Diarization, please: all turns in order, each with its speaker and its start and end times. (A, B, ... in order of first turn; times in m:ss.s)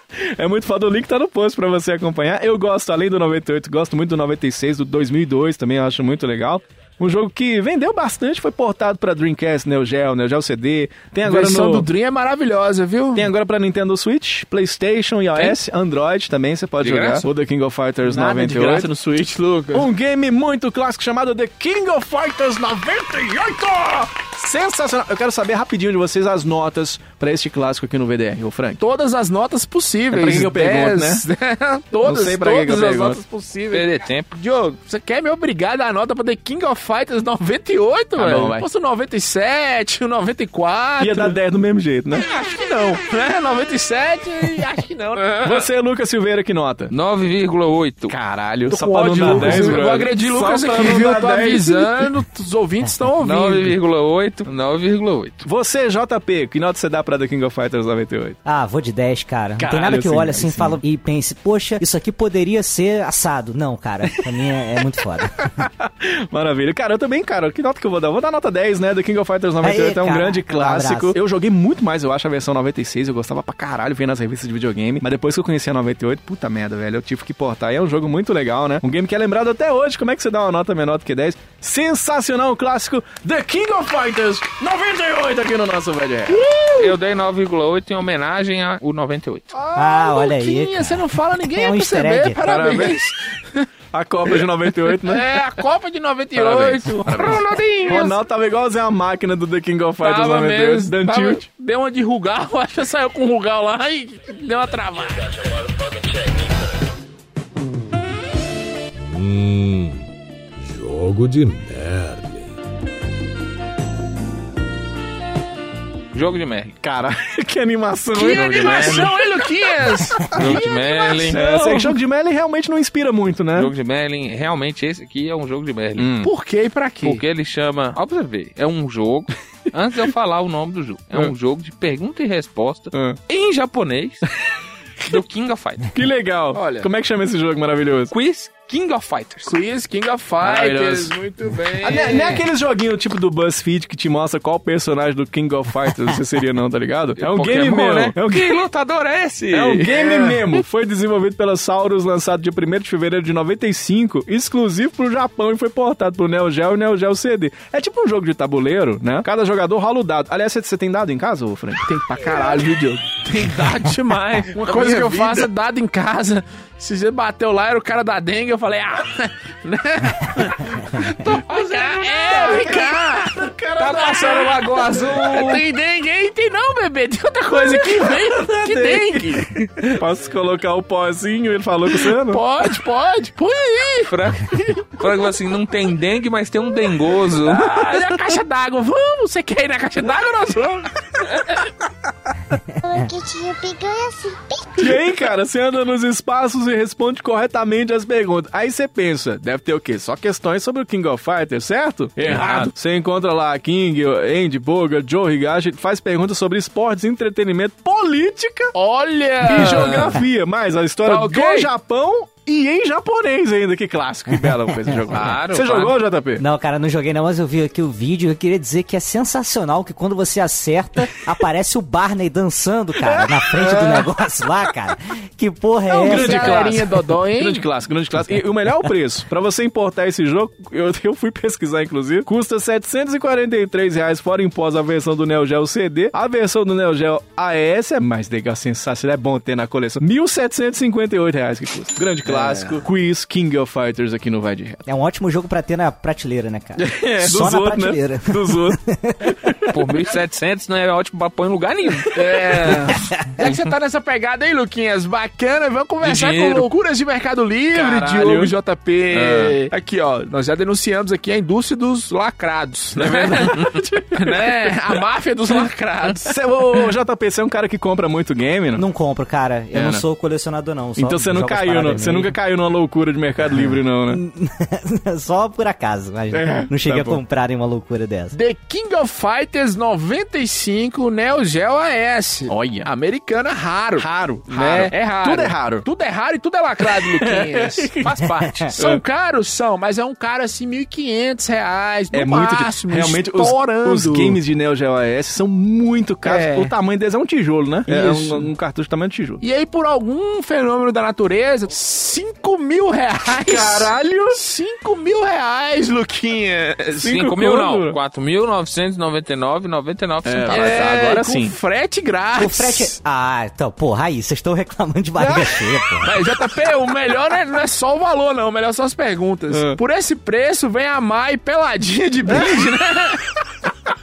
0:00.2-0:11.9 A
0:11.2-0:13.3 B
0:13.1-0:18.9 A
0:16.8-0:17.2 C
0:18.0-0:19.9 B
0:19.7-0:28.8 A
0:28.8-0:41.4 B
0:30.1-0:31.2 A
0:32.0-0:33.2 A
0:33.7-0:34.4 C
0:38.2-0:38.6 A
0:41.0-0:42.2 A
0:42.2-0:45.6 B
0:45.4-0:46.9 A
0:46.9-0:48.2 C
0:48.1-0:52.1 A
0:48.7-0:53.7 B
0:49.3-0:49.7 C
0:53.2-0:55.4 C
0:53.4-0:53.6 A
0:55.4-0:58.4 A
0:58.4-1:05.5 D
0:59.6-1:00.8 A
1:05.5-1:26.4 A
1:09.6-1:11.2 D
1:26.3-1:26.9 B
1:26.8-1:29.5 C
1:29.5-1:33.7 B
1:29.7-1:32.4 D
1:32.4-1:33.0 A
1:33.9-1:35.4 A
1:34.9-1:38.2 B
1:36.4-1:36.9 C
1:36.7-1:41.4 A
1:40.0-1:45.4 B
1:49.0-1:50.0 E
1:50.6-1:52.5 E
1:56.1-1:56.8 C
1:56.8-1:59.3 A
1:58.1-2:01.9 B
1:58.3-1:59.1 C
2:00.2-2:00.6 A
2:00.3-2:01.4 C
2:01.3-2:03.7 A
2:03.6-2:06.3 C
2:06.2-2:07.2 B
2:07.0-2:14.2 C
2:12.9-2:13.2 A
2:15.1-2:15.9 C
2:15.9-2:18.1 A
2:16.5-2:16.9 B
2:18.1-2:19.5 C
2:19.4-2:22.4 B
2:20.4-2:21.2 A
2:21.8-2:28.6 A
2:27.2-2:29.9 C
2:29.5-2:41.8 A
2:29.9-2:30.3 B
2:41.8-3:00.0 B
2:44.6-2:45.4 A
2:51.6-2:52.6 C
2:52.3-2:54.8 A
2:53.8-2:55.6 C
2:57.5-2:59.3 A
2:59.9-3:02.4 A
3:02.1-3:04.8 B
3:04.0-3:07.8 C
3:07.4-3:11.7 B
3:12.8-3:15.0 F
3:14.8-3:28.7 A
3:22.2-3:22.7 C
3:28.7-3:30.2 B
3:29.4-3:36.4 A
3:31.0-3:31.7 B
3:34.3-3:35.0 D
3:35.1-3:36.0 C
3:36.4-3:46.7 D
3:45.9-3:47.6 B
3:46.0-4:04.8 A
4:02.2-4:02.8 B
4:04.8-4:09.3 D
4:07.2-4:09.7 A
4:09.7-4:12.7 C
4:12.1-4:26.4 B
4:12.9-4:13.4 D
4:16.0-4:16.7 C
4:17.7-4:18.5 A
4:19.1-4:19.6 A
4:23.0-4:25.0 A
4:25.6-4:28.8 A
4:28.8-4:32.4 D
4:29.7-4:30.0 A
4:31.0-4:34.2 A
4:33.4-4:38.4 D
4:36.3-4:37.2 A
4:38.3-4:47.9 B
4:42.5-4:42.9 A
4:44.0-4:45.9 A
4:46.8-4:48.1 A
4:48.0-4:48.8 C
4:48.2-4:48.7 D
4:48.8-4:54.4 B
4:52.1-4:59.4 A
4:56.2-4:56.7 B
4:57.9-4:58.5 B
4:59.4-5:07.1 B
5:03.4-5:04.4 A
5:07.0-5:08.0 A
5:07.0-5:10.9 C
5:10.2-5:11.5 A
5:10.5-5:12.9 B
5:12.4-5:16.1 D
5:15.2-5:15.5 A
5:16.0-5:23.3 B
5:19.5-5:19.8 A